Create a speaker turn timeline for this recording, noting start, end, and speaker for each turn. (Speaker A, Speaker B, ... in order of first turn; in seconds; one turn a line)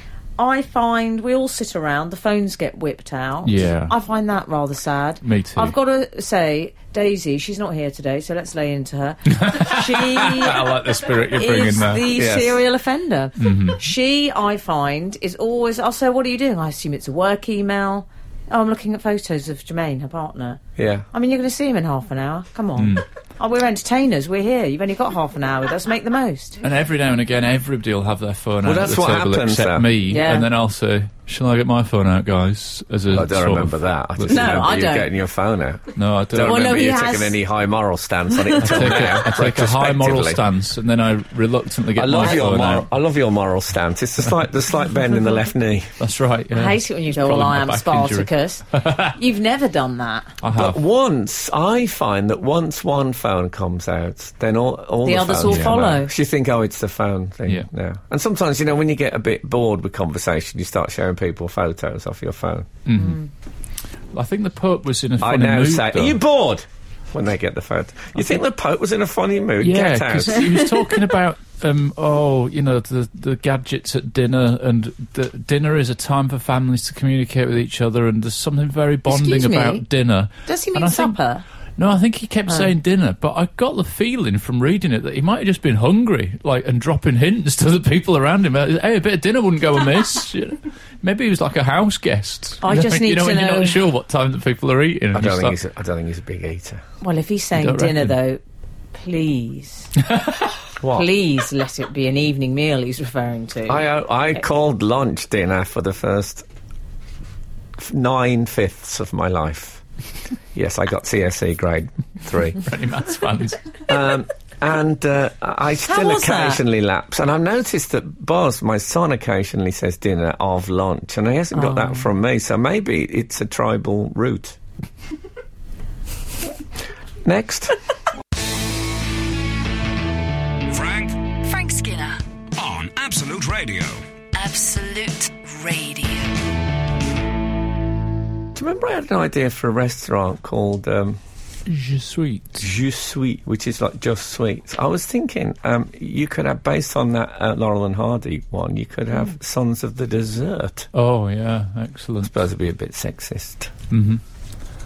Speaker A: 0.4-20.6
Speaker B: 3.5-3.9
Speaker B: 5.2-5.8
Speaker B: 9.3-12.1
Speaker C: 12.1-12.6
Speaker B: 13.4-13.8
Speaker C: 20.8-21.1
Speaker A: 21.1-26.6
Speaker B: 22.8-23.0
Speaker B: 26.6-34.7
Speaker C: 28.6-29.9
Speaker A: 30.1-30.5
Speaker C: 33.1-40.4
Speaker A: 34.3-35.1
Speaker B: 36.0-36.7
Speaker A: 36.4-37.4
Speaker A: 38.3-38.9
Speaker B: 38.6-42.9
Speaker C: 42.0-45.9
Speaker B: 46.0-49.1
Speaker A: 46.5-50.3
Speaker B: 50.4-50.8
Speaker C: 50.5-62.7
Speaker A: 55.0-56.1
Speaker B: 55.4-56.0
Speaker B: 62.9-63.2
Speaker A: 62.9-63.3
Speaker B: 64.1-66.2
Speaker C: 65.2-70.6
Speaker B: 69.6-81.2
Speaker A: 79.1-79.8
Speaker A: 80.5-81.4
Speaker B: 81.8-95.6
Speaker A: 92.6-93.8
Speaker C: 95.1-96.8
Speaker A: 97.0-98.4
Speaker B: 97.6-98.2
Speaker A: 99.0-99.9
Speaker B: 100.1-100.4
Speaker C: 100.8-101.1
Speaker A: 100.9-103.9
Speaker C: 103.7-106.5
Speaker C: 107.8-109.8
Speaker C: 110.5-112.7
Speaker B: 112.6-113.8
Speaker C: 113.9-124.6
Speaker A: 115.9-116.6
Speaker A: 121.5-122.1
Speaker C: 127.2-127.8
Speaker D: 130.7-131.3
Speaker E: 131.4-132.2
Speaker D: 132.6-134.1
Speaker E: 134.3-136.4
Speaker C: 138.5-141.2
Speaker B: 141.7-142.7
Speaker C: 142.6-150.9
Speaker B: 150.9-152.3
Speaker C: 152.2-153.7
Speaker B: 153.9-154.2